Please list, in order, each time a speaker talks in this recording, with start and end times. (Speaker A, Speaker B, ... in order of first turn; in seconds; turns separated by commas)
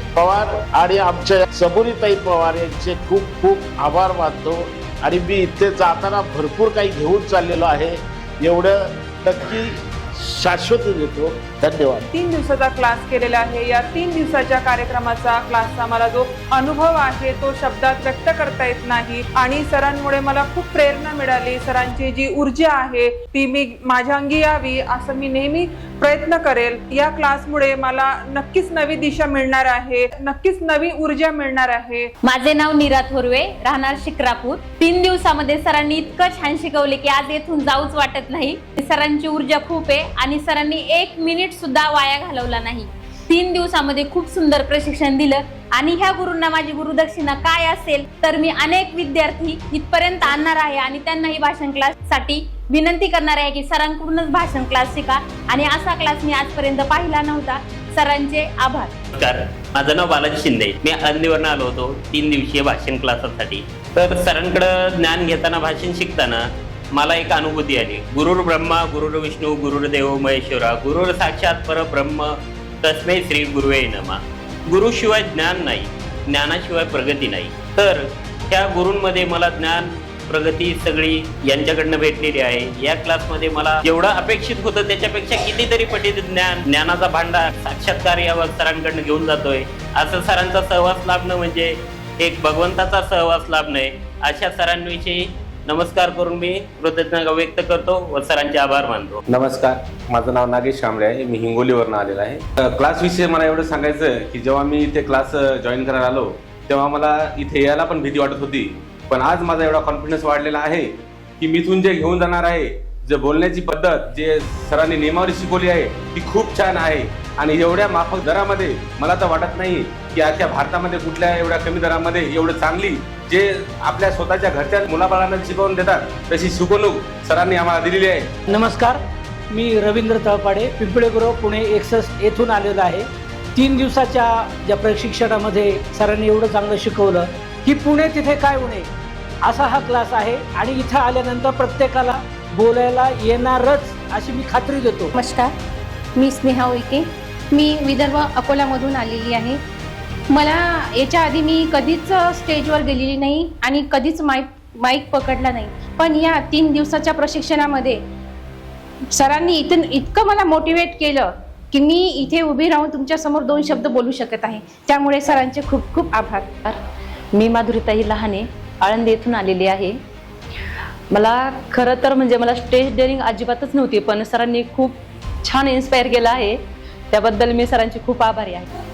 Speaker A: 0.1-12.1, Speaker B: 12.1-32.1, Speaker C: 32.2-58.9, Speaker D: 59.2-99.2, Speaker E: 99.3-128.3, Speaker F: 128.5-129.0, Speaker F: 129.5-138.9, Speaker F: 139.4-145.2, Speaker G: 146.2-147.0, Speaker G: 147.6-149.6, Speaker G: 150.3-158.0, Speaker G: 159.2-166.4, Speaker H: 167.3-169.9, Speaker H: 171.1-176.6, Speaker H: 177.1-178.7